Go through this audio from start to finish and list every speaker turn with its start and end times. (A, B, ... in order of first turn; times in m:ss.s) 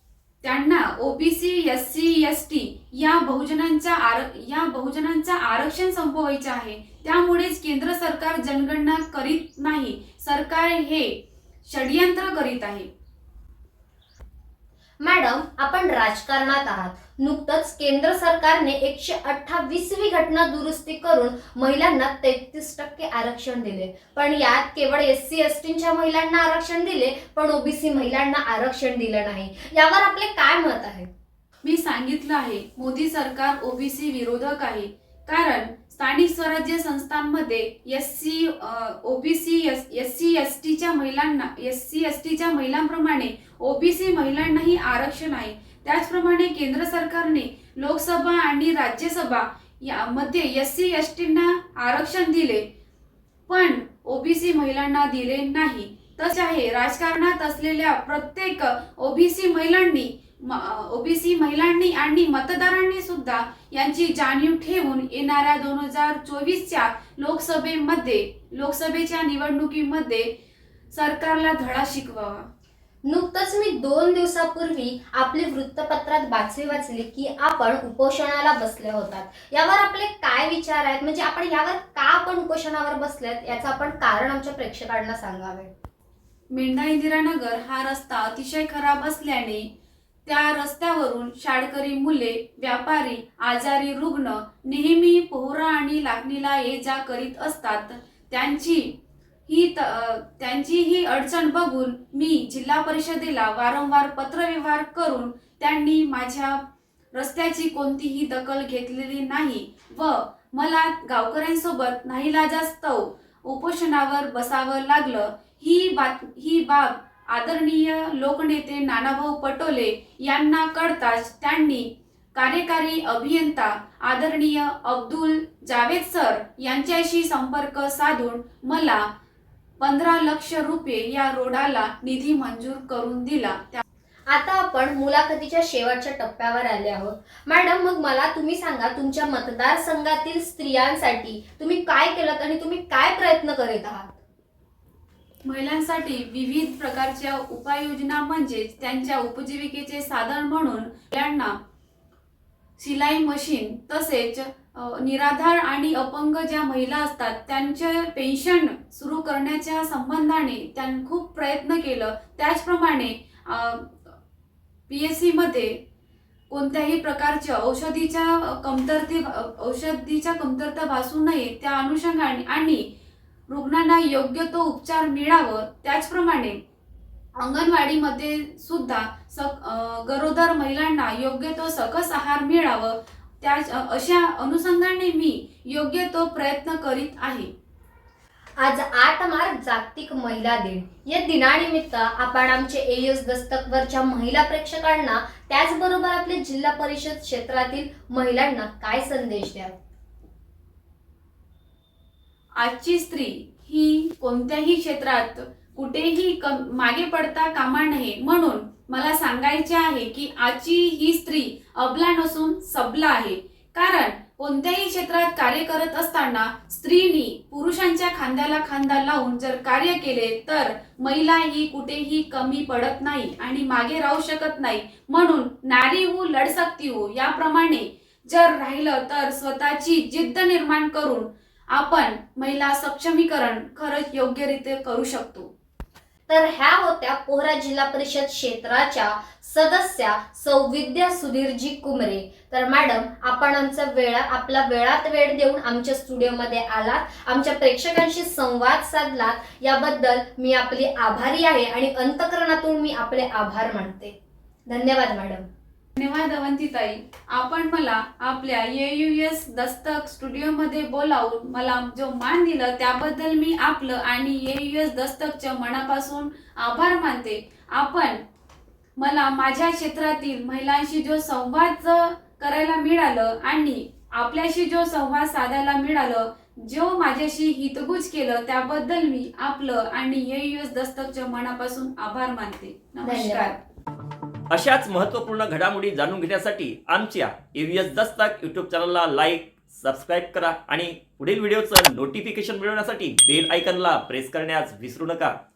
0:00.4-0:12.9 A
0:15.0-0:31.1 B
0:31.6-0:52.6 A
0:53.5-1:10.3 A
1:10.9-1:12.5 A
1:13.1-1:25.7 B
1:26.5-1:29.7 A
1:30.3-1:38.9 A
1:39.5-1:46.6 A
1:47.1-2:09.0 A
2:09.8-2:13.8 A
2:14.3-2:24.2 B
2:25.4-2:31.6 A
2:32.8-2:44.1 A
2:44.9-2:45.8 A
2:46.5-2:52.9 A
2:53.5-2:56.6 A
2:57.4-3:07.5 A
3:08.6-3:19.8 B
3:22.6-3:55.5 A
3:56.3-4:14.2 B
4:14.7-4:15.5 B
4:16.0-4:28.2 A
4:29.0-4:43.6 A
4:43.0-4:43.5 B
4:44.5-4:55.3 C